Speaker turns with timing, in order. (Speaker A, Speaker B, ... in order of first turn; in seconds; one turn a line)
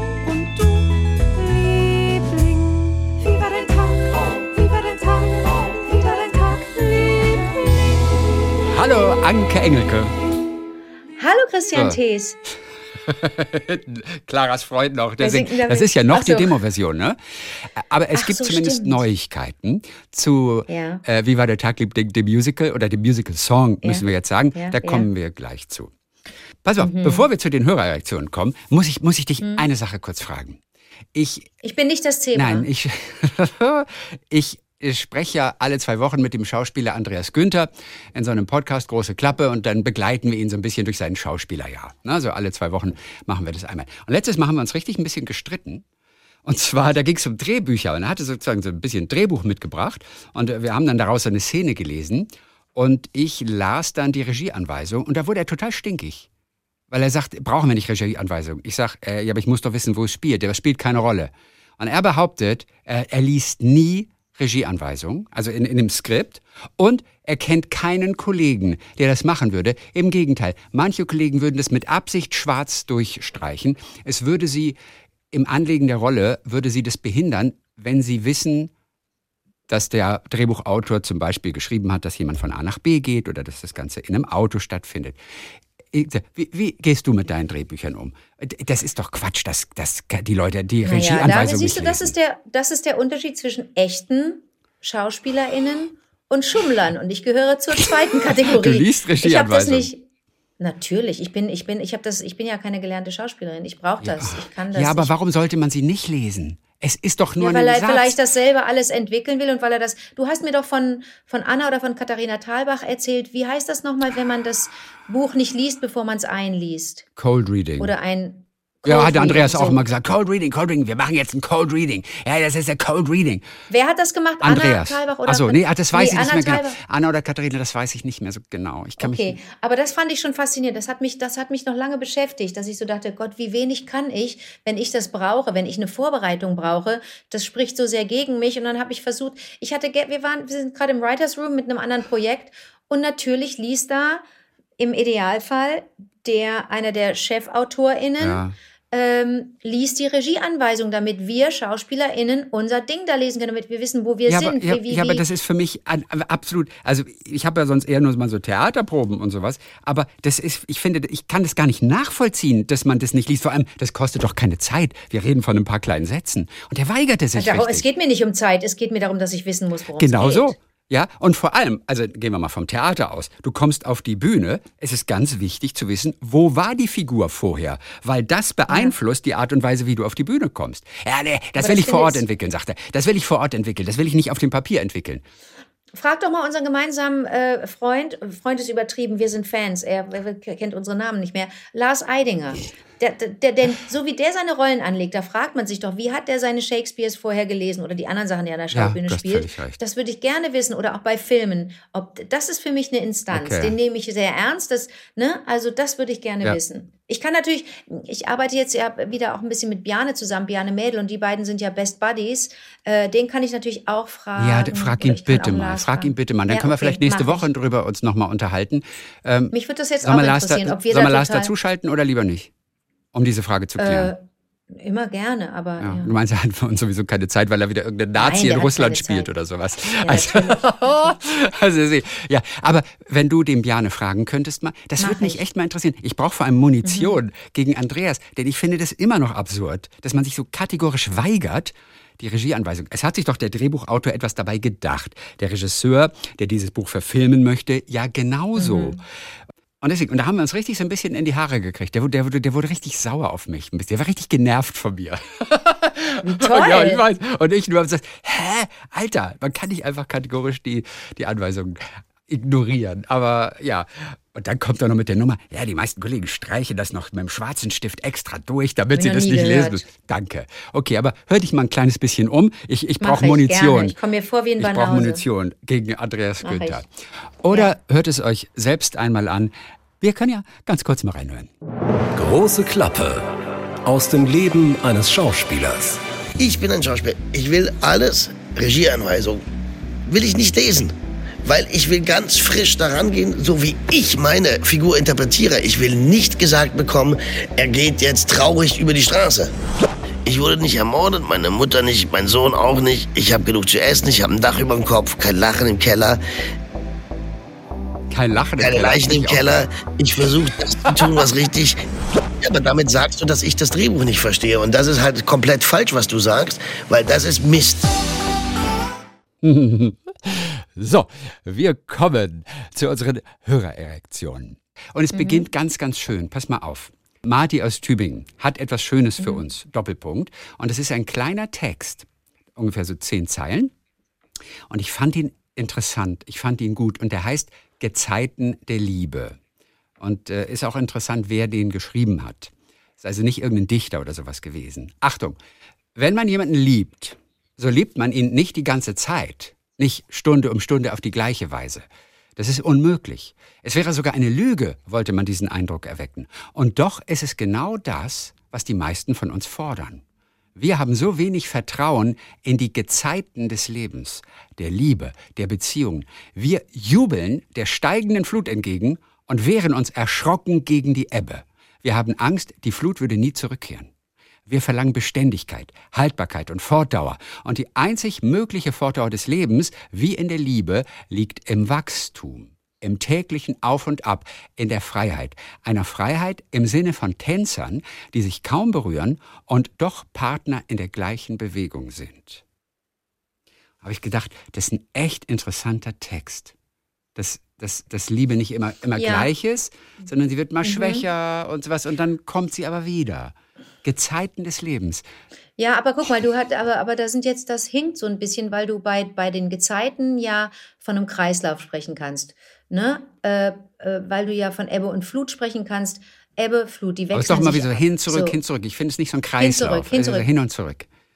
Speaker A: 0.2-7.7
Speaker B: 8.6-10.1
Speaker C: 11.2-12.4
Speaker B: 13.0-25.9
Speaker C: 15.2-16.6
Speaker C: 18.1-19.0
Speaker C: 20.7-21.0
Speaker C: 23.8-25.1
Speaker B: 26.6-30.6
Speaker C: 26.8-27.3
Speaker C: 29.4-29.7
Speaker B: 31.1-31.5
Speaker C: 31.6-32.7
Speaker B: 32.3-45.8
Speaker B: 46.4-56.3
Speaker B: 56.9-74.8
Speaker B: 75.3-78.7
Speaker B: 79.7-85.2
Speaker B: 85.9-92.1
Speaker C: 90.8-100.0
Speaker B: 97.8-99.9
Speaker C: 100.6-105.1
Speaker B: 104.0-108.2
Speaker C: 107.4-117.0
Speaker B: 117.2-117.9
Speaker C: 117.8-119.8
Speaker B: 118.8-123.4
Speaker C: 123.7-126.8
Speaker B: 124.4-129.4
Speaker C: 129.0-144.2
Speaker C: 144.8-155.2
Speaker B: 148.2-148.5
Speaker B: 154.2-167.8
Speaker C: 167.3-170.5
Speaker B: 169.9-185.2
Speaker C: 178.7-178.9
Speaker C: 181.6-182.2
Speaker C: 185.9-217.5
Speaker B: 198.7-199.8
Speaker B: 203.3-203.8
Speaker B: 214.3-222.5
Speaker C: 219.5-221.5
Speaker B: 223.1-224.1
Speaker C: 223.8-226.1
Speaker B: 225.8-249.0
Speaker C: 228.2-229.3
Speaker C: 230.0-231.1
Speaker C: 235.0-235.4
Speaker C: 236.8-237.2
Speaker C: 248.6-249.0
Speaker B: 249.8-273.9
Speaker C: 256.2-257.0
Speaker C: 268.9-269.8
Speaker C: 273.0-275.2
Speaker B: 274.6-276.9
Speaker C: 276.4-276.8
Speaker B: 277.4-281.5
Speaker D: 282.1-283.3
Speaker D: 283.8-286.0
Speaker E: 286.4-289.4
Speaker E: 290.1-290.9
Speaker E: 291.4-299.5
Speaker E: 300.2-306.2
Speaker B: 308.1-309.6
Speaker E: 308.6-311.8
Speaker E: 312.4-317.9
Speaker B: 319.4-333.7
Speaker C: 325.1-325.4
Speaker B: 334.7-339.4
Speaker B: 340.0-345.4
Speaker B: 345.9-351.9
Speaker B: 352.4-360.0
Speaker B: 360.6-373.9
Speaker B: 374.5-392.4
Speaker B: 393.8-396.5
Speaker B: 397.1-405.0
Speaker C: 398.9-399.3
Speaker C: 400.6-401.0
Speaker C: 405.6-418.4
Speaker B: 417.1-420.9
Speaker C: 419.4-420.3